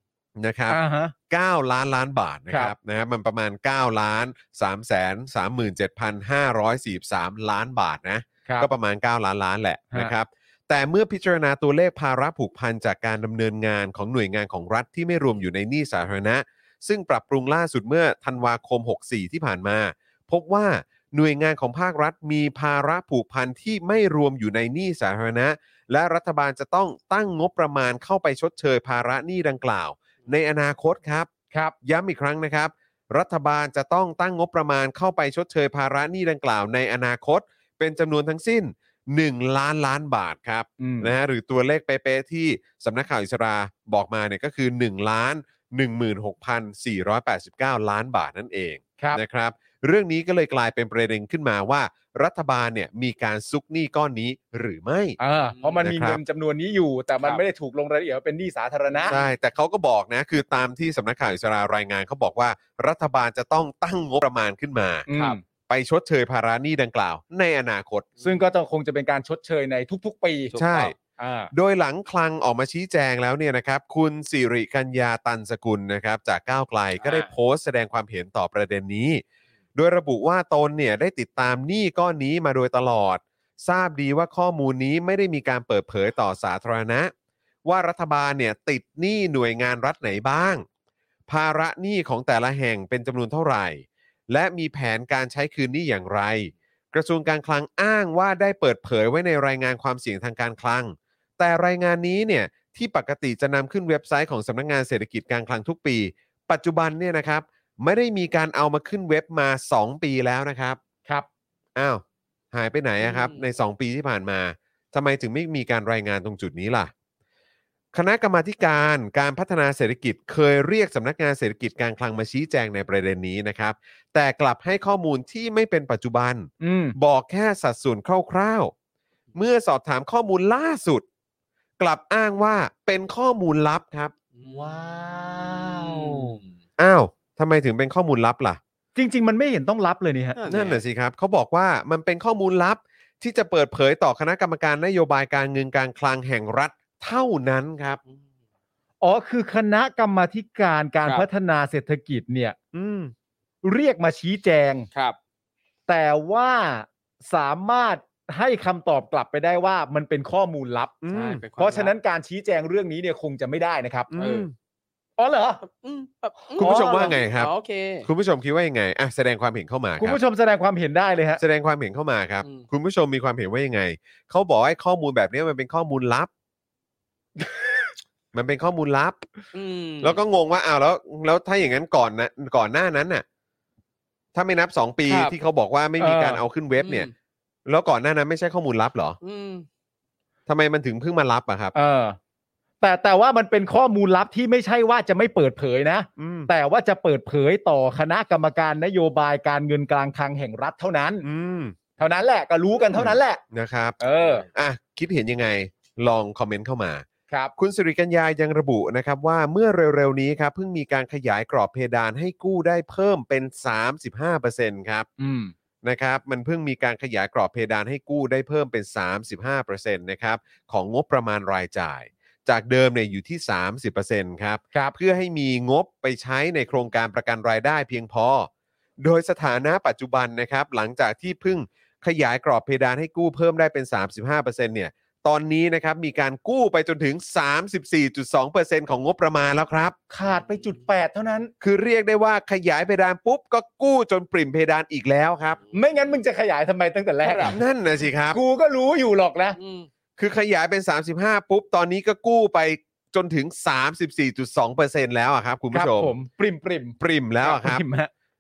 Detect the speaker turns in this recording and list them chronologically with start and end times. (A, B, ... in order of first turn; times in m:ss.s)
0:00.4-0:00.8 A
0:00.7-0:01.1 B
0:01.3-0:31.3 A
0:31.8-0:55.2 A
0:40.8-0:41.1 B
0:55.2-0:59.2 B
0:55.5-0:55.8 C
0:55.8-0:56.2 A
0:58.9-0:59.3 C
0:59.1-1:05.1 A
1:05.1-1:05.4 B
1:05.1-1:05.4 C
1:05.7-1:08.1 A
1:08.2-1:11.5 B
1:10.6-1:11.0 A
1:11.5-1:19.2 A
1:17.0-1:17.3 C
1:19.7-1:27.1 A
1:27.6-1:30.6 A
1:31.3-1:50.8 A
1:51.8-1:56.9 A
1:53.0-1:53.4 C
1:57.9-2:08.7 A
2:06.6-2:07.0 B
2:09.4-2:11.0 A
2:11.8-2:14.1 A
2:14.4-2:16.5 C
2:14.4-2:16.4 B
2:16.8-2:18.6 A
2:19.0-2:20.4 B
2:20.4-2:20.8 C
2:20.5-2:28.0 A
2:29.0-2:32.6 B
2:32.7-2:33.1 A
2:33.6-2:34.9 B
2:35.9-2:41.0 B
2:41.0-2:41.4 A
2:41.1-2:41.9 C
2:41.6-2:44.1 B
2:44.1-2:44.6 A
2:44.2-2:44.5 C
2:45.2-2:45.6 B
2:45.6-2:48.1 C
2:46.6-2:47.5 A
2:46.6-2:47.2 B
2:48.0-2:50.2 A
2:50.0-2:51.4 B
2:51.4-2:56.3 A
2:58.3-2:59.3 A
2:59.5-3:00.2 C
3:00.0-3:03.2 A
3:04.4-3:07.1 A
3:05.1-3:05.3 C
3:06.0-3:06.4 B
3:06.8-3:07.1 C
3:07.7-3:09.2 A
3:09.2-3:09.7 C
3:10.5-3:11.7 A
3:11.7-3:12.2 B
3:12.8-3:21.3 B
3:16.2-3:16.5 A
3:21.2-3:21.8 A
3:22.0-3:23.4 B
3:22.9-3:27.0 A
3:24.0-3:24.4 B
3:27.6-3:35.1 A
3:35.2-3:35.5 B
3:35.8-3:48.5 A
3:49.0-4:00.0 A
4:00.1-4:01.5 B
4:00.3-4:00.7 C
4:01.6-4:05.6 A
4:05.6-4:05.9 C
4:05.7-4:07.6 B
4:07.2-4:07.6 C
4:07.4-4:08.4 A
4:08.3-4:09.6 B
4:09.6-4:09.9 C
4:10.2-4:16.1 A
4:15.7-4:18.1 B
4:17.0-4:17.8 A